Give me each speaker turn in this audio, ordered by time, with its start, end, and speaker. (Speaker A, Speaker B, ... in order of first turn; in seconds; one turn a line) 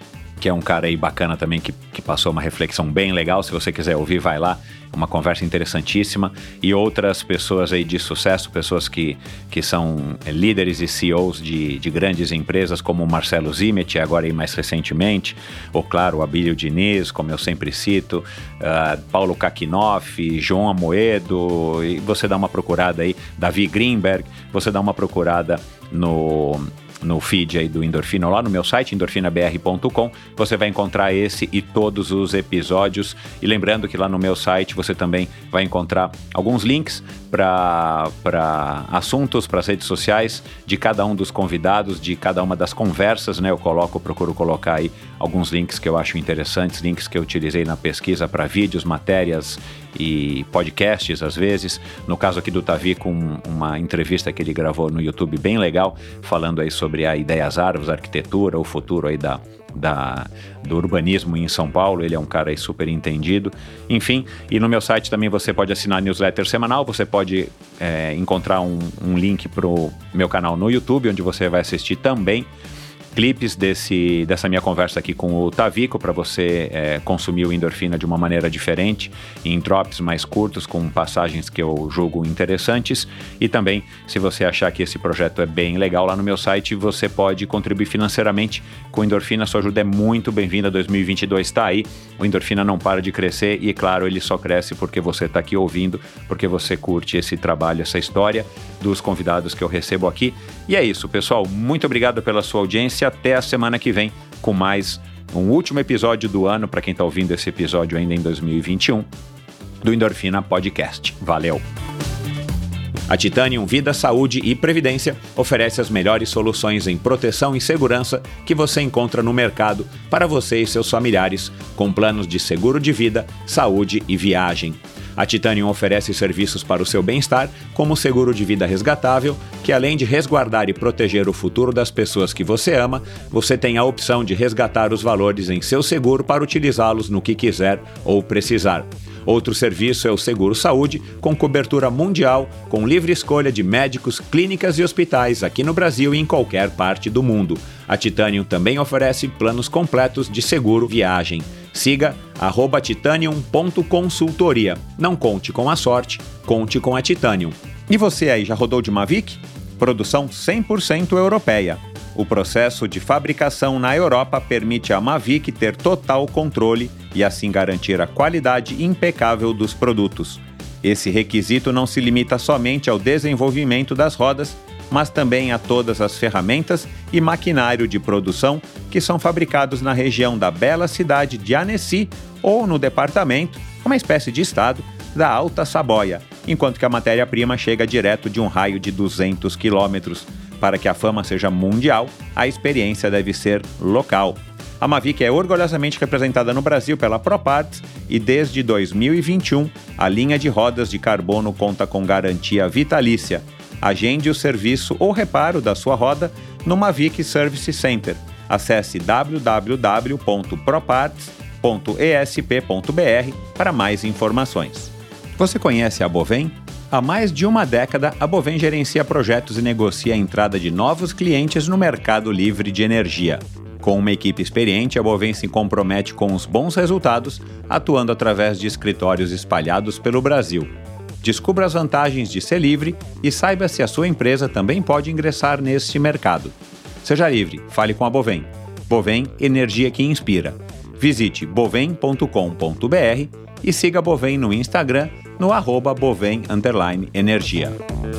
Speaker A: 0.4-72.5
Speaker A: 73.1-109.1
Speaker A: 109.8-111.6
Speaker A: 113.1-247.8